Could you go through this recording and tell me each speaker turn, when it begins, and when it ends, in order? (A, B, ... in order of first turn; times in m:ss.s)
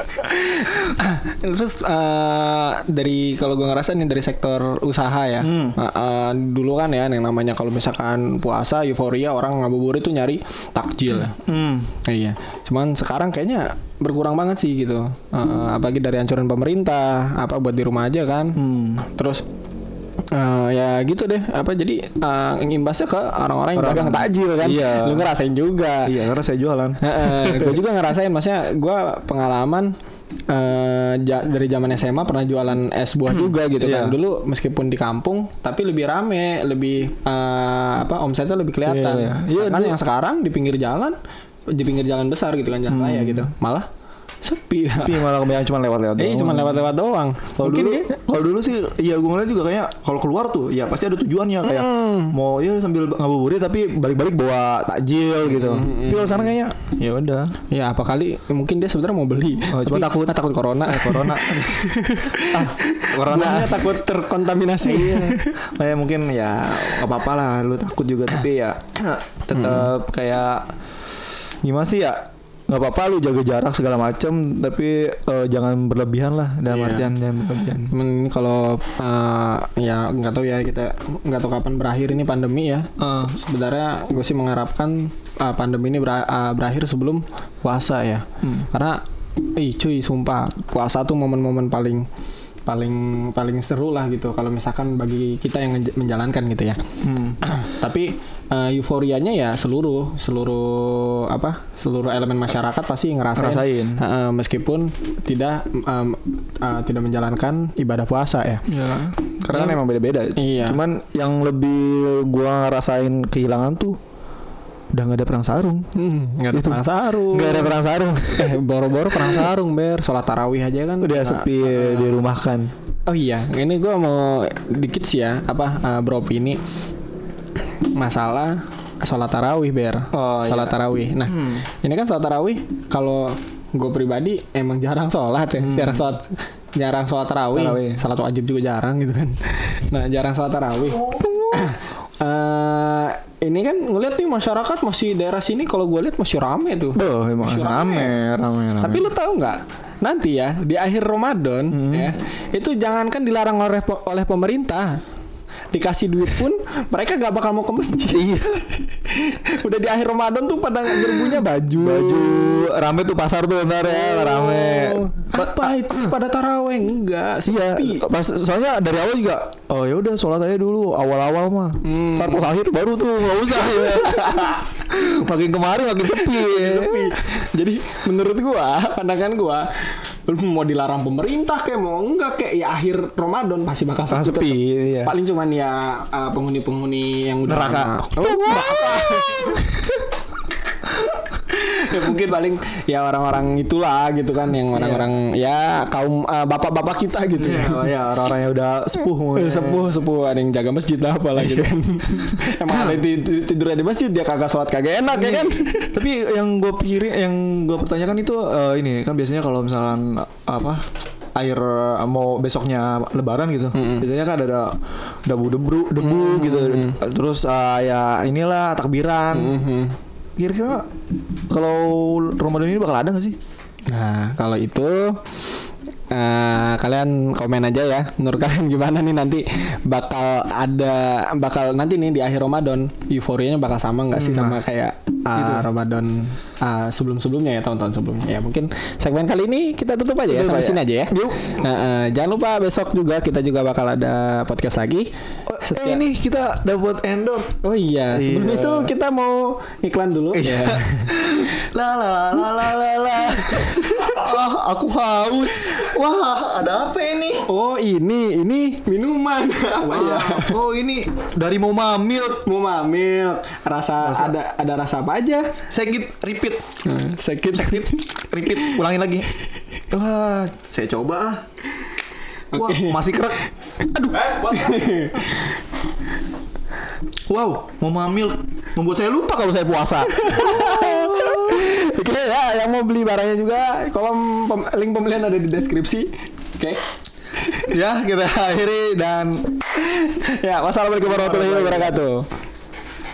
0:00.2-0:11.4 A
0:05.4-0:05.8 B
0:11.5-0:11.9 B
0:12.0-0:19.4 A
0:18.6-0:19.0 B
0:20.3-0:26.1 A
0:23.8-0:25.4 B
0:26.0-0:27.8 B
0:27.0-0:29.9 A
0:30.5-0:41.2 A
0:33.3-0:34.2 B
0:38.9-0:40.0 B
0:41.8-0:43.9 A
0:42.9-0:43.5 B
0:44.4-0:45.3 A
0:45.0-0:46.9 B
0:46.2-0:48.2 A
0:47.6-0:57.5 B
0:51.6-0:52.4 A
0:55.5-0:56.5 A
0:57.7-1:05.6 A
0:59.7-1:04.0 B
1:04.8-1:10.7 B
1:09.6-1:09.9 A
1:11.6-1:17.9 B
1:16.7-1:17.1 A
1:17.9-1:29.0 A
1:23.0-1:23.4 B
1:28.4-1:28.7 B
1:29.6-1:32.0 A
1:32.7-1:36.8 A
1:37.0-1:37.4 B
1:37.4-1:48.7 A
1:43.4-1:44.0 B
1:48.7-1:54.0 B
1:49.5-1:49.8 A
1:50.4-1:50.8 A
1:54.9-1:55.9 B
1:56.0-1:57.8 A
1:56.5-1:58.6 B
1:58.3-2:02.2 A
1:59.1-1:59.5 B
2:01.0-2:02.7 B
2:03.1-2:06.6 A
2:07.9-2:28.2 A
2:10.1-2:11.6 B
2:15.6-2:16.2 B
2:17.5-2:18.0 B
2:21.0-2:21.7 B
2:27.0-2:29.1 B
2:28.8-2:35.0 A
2:31.7-2:32.2 B
2:35.7-2:42.7 A
2:38.1-2:38.7 B
2:41.0-2:46.1 B
2:43.8-2:48.1 A
2:47.4-2:57.1 B
2:51.8-2:52.4 A
2:54.2-2:54.5 A
2:56.2-3:10.0 A
3:04.1-3:05.1 B
3:07.5-3:09.8 B
3:11.0-3:17.9 A
3:14.7-3:15.1 B
3:17.4-3:19.9 B
3:19.4-3:26.0 A
3:21.4-3:21.7 B
3:22.3-3:23.0 B
3:25.1-3:30.8 B
3:31.4-3:39.6 B
3:33.7-3:34.1 A
3:36.0-3:37.0 A
3:39.3-3:40.0 A
3:40.4-3:40.8 B
3:41.5-3:43.4 B
3:43.9-3:45.2 A
3:46.1-4:05.1 A
3:54.1-3:54.6 B
3:55.3-3:55.7 B
4:00.3-4:01.7 B
4:05.5-4:07.6 B
4:05.6-4:06.0 A
4:07.6-4:11.2 A
4:08.1-4:08.9 B
4:10.3-4:17.5 B
4:13.2-4:14.2 A
4:17.5-4:20.6 A
4:19.9-4:22.4 B
4:22.4-4:25.5 A
4:24.0-4:24.4 B
4:25.7-4:26.6 B
4:26.8-4:28.8 A
4:27.5-4:29.3 B
4:29.9-4:31.4 B
4:32.5-4:33.0 A
4:32.5-4:33.4 B
4:33.8-4:35.6 A
4:34.1-4:35.0 B
4:37.3-4:41.7 B
4:40.2-4:46.8 A
4:47.4-4:47.7 A
4:47.6-4:49.6 B
4:49.7-4:52.3 A
4:51.0-4:52.0 B